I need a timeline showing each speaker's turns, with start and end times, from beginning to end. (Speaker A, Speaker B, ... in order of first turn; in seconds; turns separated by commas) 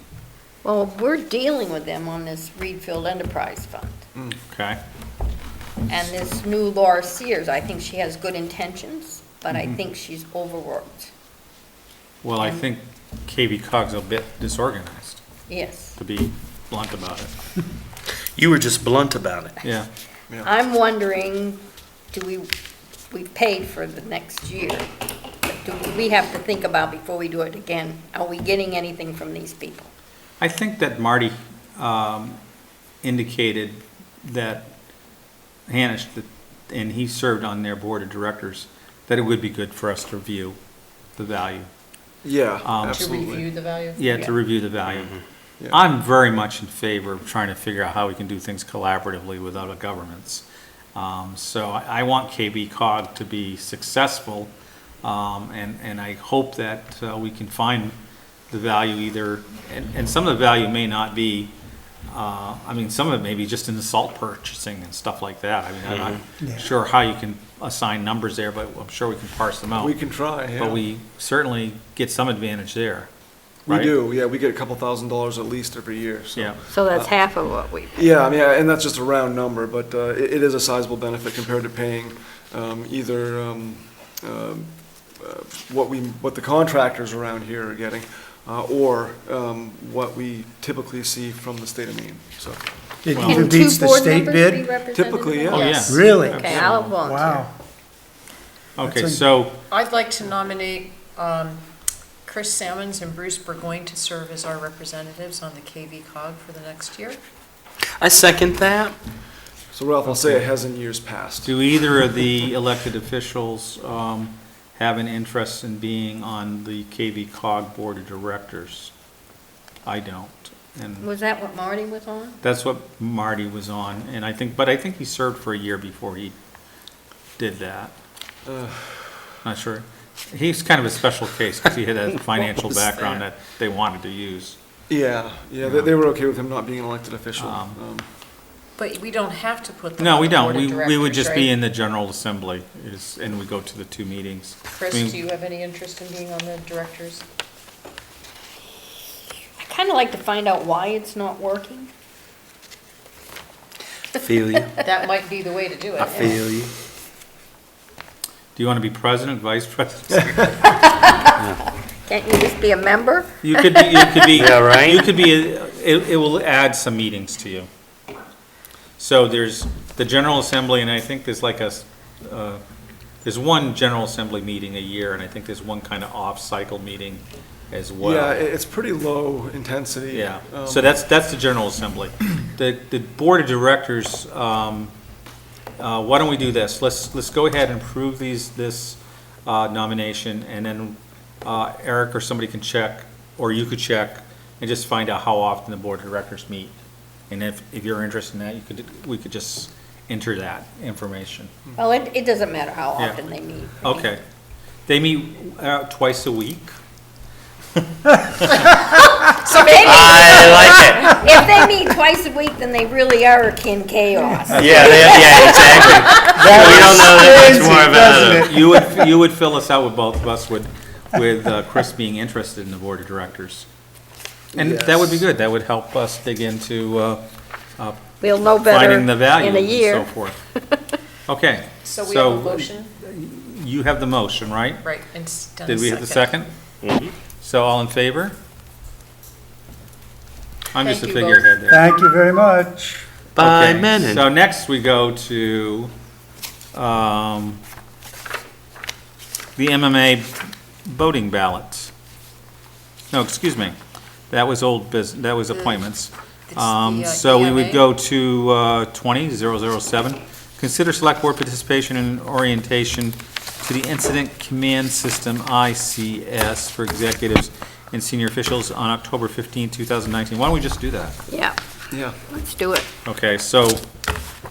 Speaker A: 0.6-4.0, Speaker B: 4.5-4.8, Speaker A: 5.9-11.1, Speaker B: 12.2-15.2, Speaker A: 15.5-15.9, Speaker B: 15.9-17.3, Speaker C: 18.2-19.5, Speaker B: 19.6-19.9, Speaker A: 20.4-21.6, Speaker A: 22.1-22.5, Speaker A: 23.1-24.9, Speaker A: 25.4-29.9, Speaker B: 30.4-32.4, Speaker B: 33.0-34.7, Speaker B: 35.7-40.6, Speaker B: 41.1-41.7, Speaker D: 42.2-43.5, Speaker B: 42.6-43.1, Speaker E: 42.9-44.3, Speaker B: 44.0-45.2, Speaker C: 44.9-45.2, Speaker B: 45.7-54.5, Speaker B: 55.0-58.0, Speaker B: 58.5-61.5, Speaker B: 62.1-69.9, Speaker C: 65.9-66.2, Speaker F: 66.4-66.7, Speaker D: 69.8-70.8, Speaker B: 70.5-73.1, Speaker D: 73.7-77.1, Speaker A: 76.7-78.0, Speaker D: 77.9-92.6, Speaker F: 93.0-94.7, Speaker B: 93.1-93.5, Speaker A: 93.2-97.5, Speaker D: 94.9-95.8, Speaker B: 95.5-97.0, Speaker E: 95.5-95.9, Speaker F: 95.8-97.5, Speaker B: 98.8-99.6, Speaker F: 98.8-99.2, Speaker E: 99.7-101.6, Speaker E: 102.2-107.2, Speaker C: 108.0-109.0, Speaker D: 109.7-111.5, Speaker B: 110.1-110.4, Speaker B: 111.4-118.9, Speaker B: 119.8-121.1, Speaker A: 121.0-122.4, Speaker B: 122.4-126.3, Speaker B: 127.4-127.9, Speaker D: 128.4-129.2, Speaker B: 129.4-134.6, Speaker D: 134.9-138.1, Speaker B: 135.6-135.9, Speaker B: 137.4-137.8, Speaker E: 138.8-141.5, Speaker B: 140.0-145.2, Speaker E: 144.7-147.2, Speaker A: 149.6-151.9, Speaker C: 154.2-154.7, Speaker E: 154.8-156.3, Speaker C: 156.1-156.7, Speaker B: 158.5-160.7, Speaker A: 160.6-161.3, Speaker A: 162.0-164.2, Speaker B: 163.4-167.7, Speaker C: 164.3-165.1, Speaker B: 169.0-172.6, Speaker B: 173.2-178.5, Speaker D: 178.0-180.9, Speaker B: 180.1-184.9, Speaker B: 185.8-196.7, Speaker B: 197.3-201.5, Speaker A: 201.8-204.1, Speaker B: 203.8-204.2, Speaker B: 204.9-206.7, Speaker B: 207.8-208.6, Speaker A: 209.4-216.7, Speaker E: 209.4-210.7, Speaker C: 209.8-211.1, Speaker F: 214.4-214.7, Speaker C: 214.5-218.5, Speaker F: 216.3-218.8, Speaker B: 218.3-223.7, Speaker B: 224.5-227.2, Speaker D: 224.6-225.2, Speaker B: 227.8-228.0, Speaker A: 228.2-230.1, Speaker B: 228.6-230.4, Speaker B: 231.3-234.8, Speaker E: 231.8-232.9, Speaker E: 234.8-236.4, Speaker B: 235.7-236.5, Speaker C: 236.8-237.1, Speaker B: 237.4-238.3, Speaker B: 240.7-241.9, Speaker E: 240.8-241.6, Speaker F: 241.7-243.0, Speaker C: 243.3-244.2, Speaker B: 243.4-245.9, Speaker B: 246.7-247.6, Speaker B: 249.6-251.9, Speaker B: 253.1-253.8, Speaker B: 254.3-271.2, Speaker E: 255.5-255.8, Speaker E: 256.5-257.9, Speaker A: 271.3-271.6, Speaker D: 271.9-272.2, Speaker A: 272.2-272.9, Speaker B: 273.0-273.8